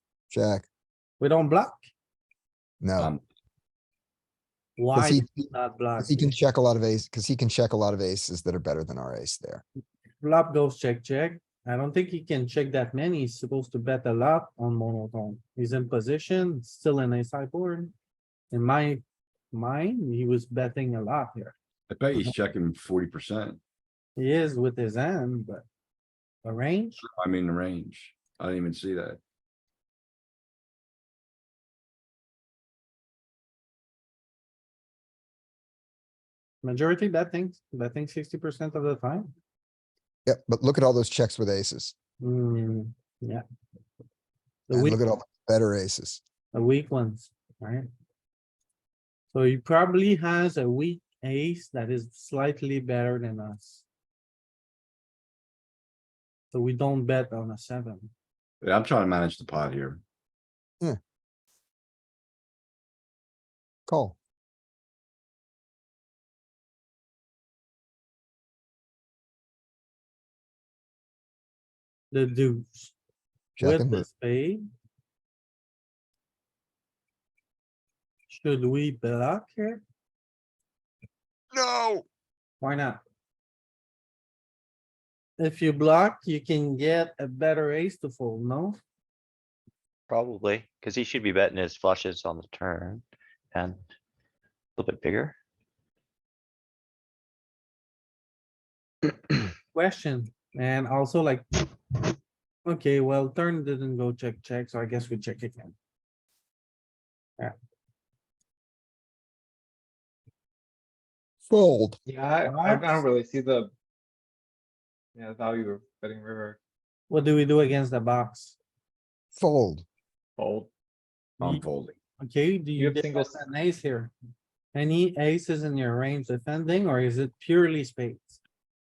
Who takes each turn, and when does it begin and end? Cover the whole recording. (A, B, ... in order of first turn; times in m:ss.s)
0:00.3-0:00.7 A
0:01.2-0:01.9 B
0:02.8-0:03.1 A
0:03.0-0:03.2 C
0:04.8-0:06.4 B
0:04.9-0:09.6 A
0:10.2-0:17.9 B
0:18.5-0:19.0 B
0:19.5-0:21.5 B
0:21.9-0:23.6 C
0:24.2-0:25.6 B
0:26.4-0:27.0 B
0:27.1-0:29.2 C
0:36.6-0:39.3 B
0:40.2-0:41.9 A
0:42.2-0:43.4 B
0:44.7-0:45.0 B
0:44.7-0:46.2 A
0:46.5-0:47.9 B
0:49.3-0:53.8 B
0:56.5-0:58.1 B
0:58.6-1:00.0 C
1:03.9-1:04.2 A
1:12.1-1:12.9 B
1:13.6-1:14.1 A
1:13.6-1:14.6 B
1:18.3-1:19.8 B
1:21.5-1:22.0 A
1:22.6-1:23.0 B
1:25.4-1:28.8 B
1:30.1-1:33.8 D
1:34.8-1:35.4 D
1:39.7-1:41.6 B
1:42.7-1:45.8 B
1:51.5-1:52.0 A
1:52.0-1:53.7 E
1:52.4-1:53.0 B
1:55.2-1:56.6 E
1:57.1-1:58.6 B
1:59.3-1:59.8 A
2:00.4-2:00.7 E
2:01.4-2:02.0 C
2:02.2-2:04.1 B
2:02.8-2:03.4 E
2:04.7-2:08.4 B